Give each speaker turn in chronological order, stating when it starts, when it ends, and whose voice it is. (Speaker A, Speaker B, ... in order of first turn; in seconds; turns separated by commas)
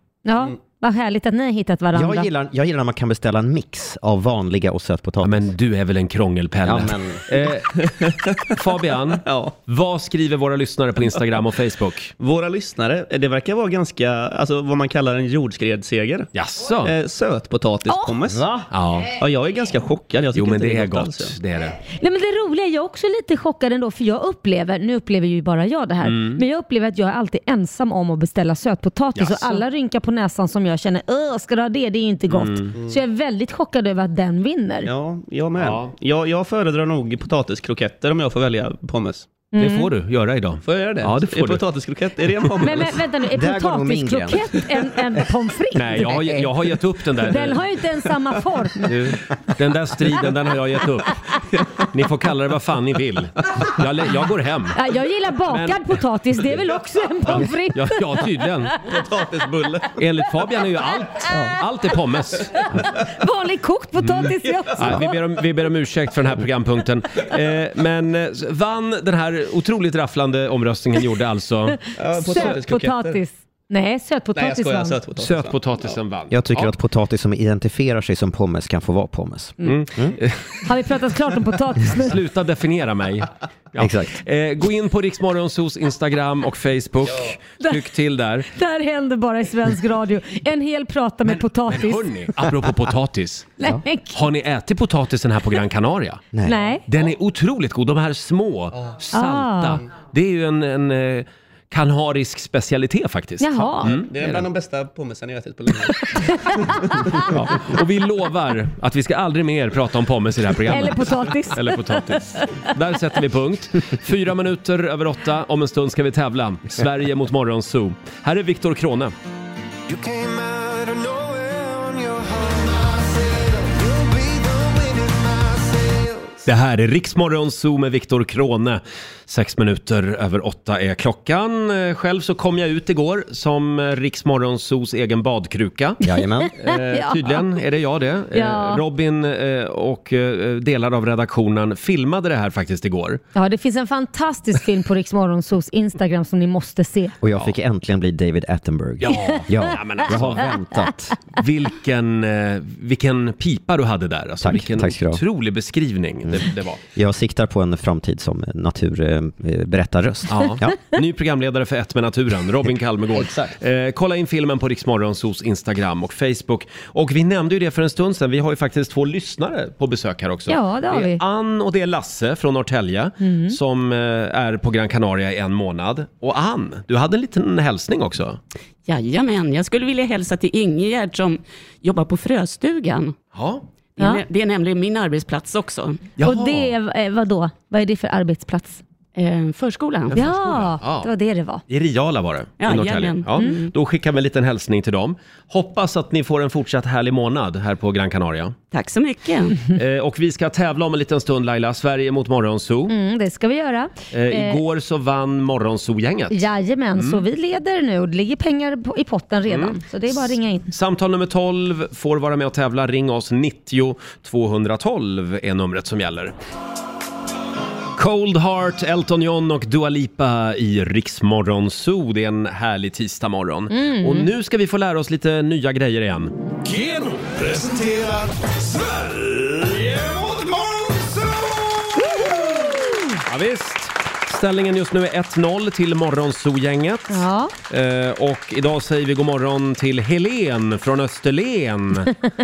Speaker A: 0.2-2.3, Speaker B: 1.9-5.5, Speaker C: 5.2-12.1, Speaker B: 6.6-7.2, Speaker D: 7.8-9.6, Speaker D: 12.2-16.3, Speaker C: 16.3-16.9, Speaker D: 16.8-18.5, Speaker A: 17.9-18.1, Speaker B: 18.3-18.6, Speaker C: 18.7-19.1, Speaker D: 19.1-21.4, Speaker C: 20.3-21.8, Speaker A: 21.9-34.9, Speaker C: 26.0-26.4, Speaker C: 29.2-29.6, Speaker C: 32.3-32.7, Speaker D: 34.8-39.3, Speaker C: 35.6-35.9, Speaker A: 39.5-39.9, Speaker C: 39.6-41.7, Speaker D: 40.6-43.0, Speaker A: 42.6-46.5, Speaker B: 43.3-44.5, Speaker C: 45.8-47.7, Speaker A: 47.2-48.9, Speaker C: 48.9-51.2, Speaker D: 51.5-51.8, Speaker C: 51.9-54.8, Speaker A: 54.8-58.2, Speaker C: 55.5-56.0, Speaker C: 57.3-58.8, Speaker D: 58.8-60.0, Speaker C: 60.0-62.8, Speaker A: 62.9-65.2, Speaker C: 64.0-72.6, Speaker D: 64.4-64.7, Speaker D: 72.0-73.2, Speaker A: 72.2-75.0, Speaker D: 74.3-76.0, Speaker C: 75.2-76.8, Speaker B: 76.3-80.2, Speaker C: 79.6-80.6, Speaker A: 80.7-82.2, Speaker C: 81.9-88.5, Speaker B: 83.8-84.1, Speaker A: 88.5-92.1, Speaker C: 91.3-93.6, Speaker A: 93.6-94.2, Speaker C: 94.1-96.2, Speaker A: 96.4-96.8, Speaker C: 96.9-104.4, Speaker A: 99.1-99.8, Speaker A: 103.4-104.0, Speaker D: 103.9-106.1, Speaker A: 106.2-106.8, Speaker D: 106.7-107.3, Speaker C: 107.2-119.1, Speaker A: 110.7-112.2, Speaker E: 119.9-126.1, Speaker C: 126.5-136.0, Speaker B: 136.0-136.5, Speaker A: 136.4-137.4, Speaker C: 136.6-143.2, Speaker A: 138.3-138.8, Speaker A: 143.3-147.2, Speaker B: 147.2-151.2, Speaker C: 149.0-150.5, Speaker C: 151.4-156.8, Speaker B: 154.4-155.2, Speaker B: 156.9-160.8, Speaker C: 160.3-178.4, Speaker B: 163.2-163.4, Speaker A: 170.5-171.2, Speaker A: 173.2-173.6, Speaker F: 178.9-183.2, Speaker C: 183.3-183.6, Speaker F: 184.0-186.1, Speaker C: 186.2-186.7, Speaker A: 186.2-188.8, Speaker F: 189.2-190.2, Speaker C: 190.1-191.1, Speaker A: 190.1-191.6, Speaker C: 191.7-198.6, Speaker F: 192.6-193.7, Speaker F: 198.7-199.6, Speaker C: 199.7-202.9, Speaker A: 202.9-204.6, Speaker C: 204.1-206.4, Speaker A: 206.3-210.7, Speaker C: 207.0-207.2, Speaker C: 209.5-209.8, Speaker C: 210.7-216.3, Speaker C: 218.0-226.3, Speaker A: 223.7-224.3, Speaker E: 226.7-231.4, Speaker A: 232.2-233.0, Speaker C: 233.2-242.1, Speaker A: 237.1-237.5